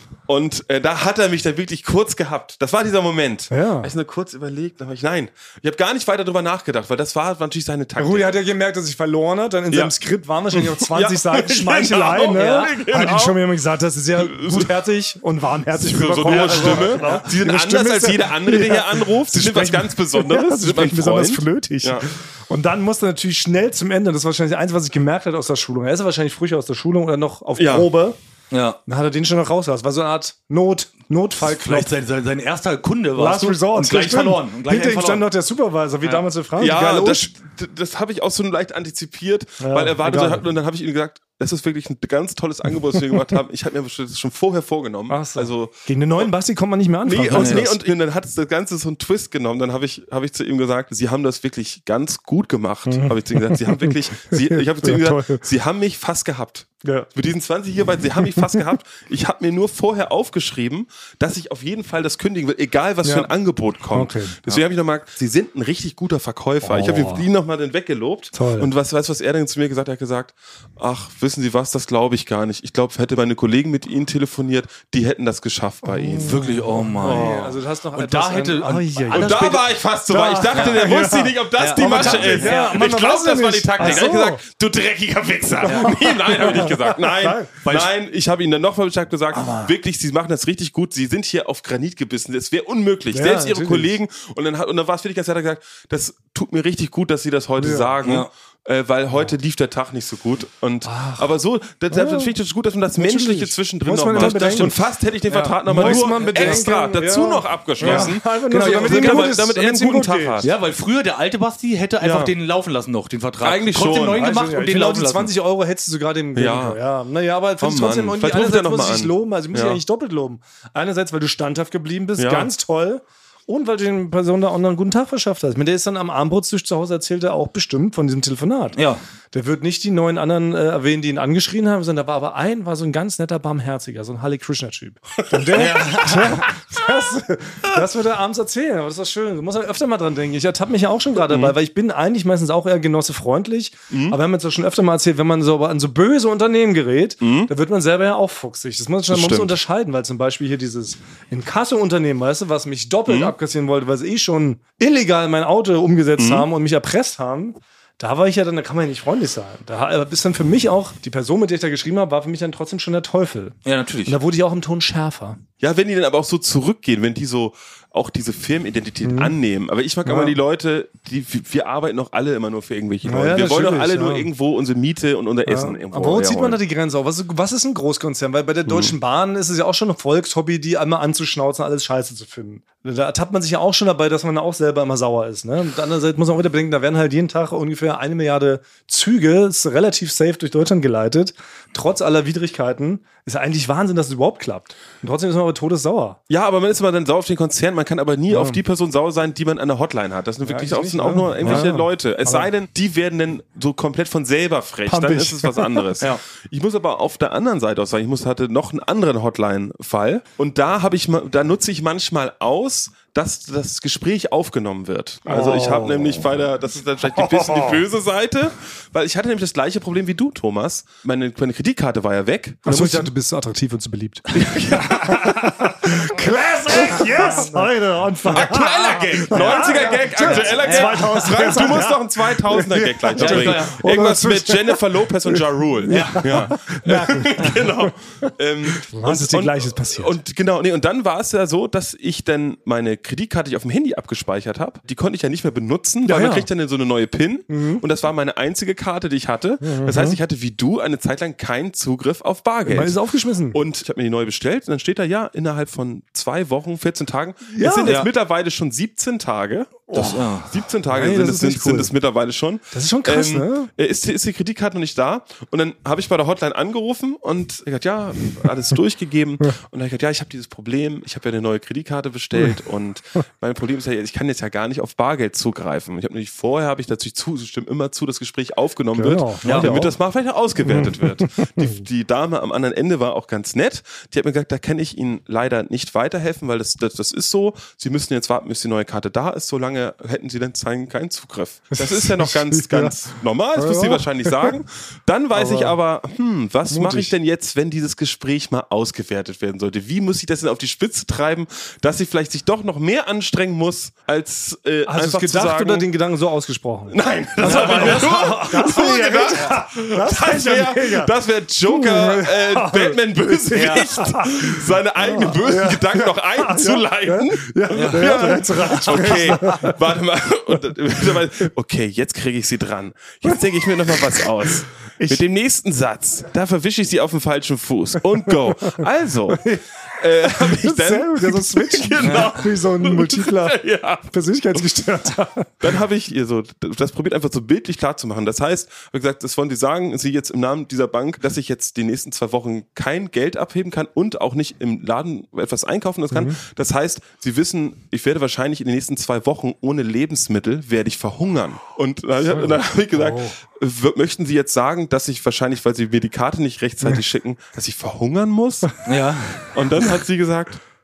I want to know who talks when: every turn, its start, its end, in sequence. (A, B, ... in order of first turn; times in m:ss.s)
0:00.3-0:08.3 A
0:03.5-0:03.9 B
0:08.0-0:28.2 B
0:10.5-0:13.4 A
0:14.2-0:14.7 A
0:15.8-0:22.1 A
0:16.3-0:17.2 C
0:27.6-0:27.9 A
0:28.5-0:28.8 C
0:28.9-0:31.9 B
0:31.4-0:35.3 C
0:33.2-0:37.3 B
0:36.6-0:46.3 A
0:39.6-0:40.5 B
0:45.1-0:47.8 B
0:47.0-1:16.4 A
0:47.3-0:47.7 C
0:52.9-0:55.4 B
0:56.8-0:57.1 B
0:58.3-0:58.6 B
1:03.0-1:03.3 B
1:03.9-1:04.4 B
1:06.6-1:07.2 B
1:08.3-1:08.7 B
1:15.8-1:24.4 B
1:16.2-1:19.7 C
1:17.0-1:17.3 A
1:19.1-1:50.5 A
1:20.5-1:20.9 C
1:21.6-1:23.0 C
1:23.8-1:24.1 C
1:25.6-1:27.5 B
1:25.6-1:26.7 C
1:27.6-1:27.9 C
1:29.3-1:29.7 B
1:33.1-1:34.0 B
1:37.6-1:38.0 B
1:38.0-1:38.3 C
1:40.8-1:41.3 B
1:41.9-1:42.3 B
1:43.0-1:44.8 B
1:44.1-1:44.7 C
1:45.3-1:50.4 B
1:45.4-1:46.7 C
1:47.8-1:49.4 C
1:50.4-1:55.3 C
1:52.0-1:52.3 A
1:53.4-1:54.2 A
1:54.1-2:08.8 B
1:56.3-1:56.8 A
1:57.6-1:59.8 A
2:02.2-2:02.5 A
2:08.8-2:09.0 C
2:09.3-2:45.4 B
2:15.5-2:16.5 C
2:21.3-2:21.6 A
2:23.9-2:24.2 A
2:27.2-2:27.5 A
2:29.1-2:29.6 A
2:33.1-2:33.3 A
2:36.2-2:36.4 A
2:43.6-2:44.2 C
2:45.6-2:56.6 A
2:49.0-2:49.3 B
2:50.0-2:50.4 B
2:53.0-2:54.3 B
2:55.4-3:16.2 B
2:58.6-2:58.9 A
3:16.3-3:43.1 A
3:18.3-3:18.6 B
3:20.4-3:22.5 B
3:21.4-3:21.7 C
3:24.8-3:25.9 B
3:35.2-3:36.3 B
3:37.1-3:37.8 B
3:42.6-4:00.2 B
3:44.3-3:45.7 A
3:48.3-4:13.0 A
3:49.4-3:51.8 C
3:53.1-3:53.8 C
3:55.9-3:56.5 C
4:06.0-4:06.5 B
4:07.5-4:07.8 B
4:09.6-4:10.2 B
4:12.6-4:13.6 B
4:13.5-5:05.9 A
4:17.5-4:18.0 B
4:19.9-4:20.2 B
4:19.9-4:20.5 C
4:20.9-4:21.9 B
4:22.7-4:23.7 B
4:38.9-4:40.0 B
4:39.4-4:39.8 C
4:40.6-4:41.7 B
4:51.7-4:53.0 B
4:53.6-4:54.5 B
4:55.3-4:55.8 B
4:56.7-4:57.1 B
5:04.8-5:11.1 B
5:06.9-5:34.1 A
5:07.4-5:08.2 C
5:11.7-5:19.8 B
5:13.5-5:13.9 C
5:17.7-5:19.6 C
5:23.2-5:25.2 B
5:28.3-5:35.7 B
5:32.0-5:32.3 C
5:35.6-5:58.7 A
5:46.1-5:46.4 B
5:52.3-5:53.4 B
5:58.8-5:59.5 C
5:59.5-6:00.6 A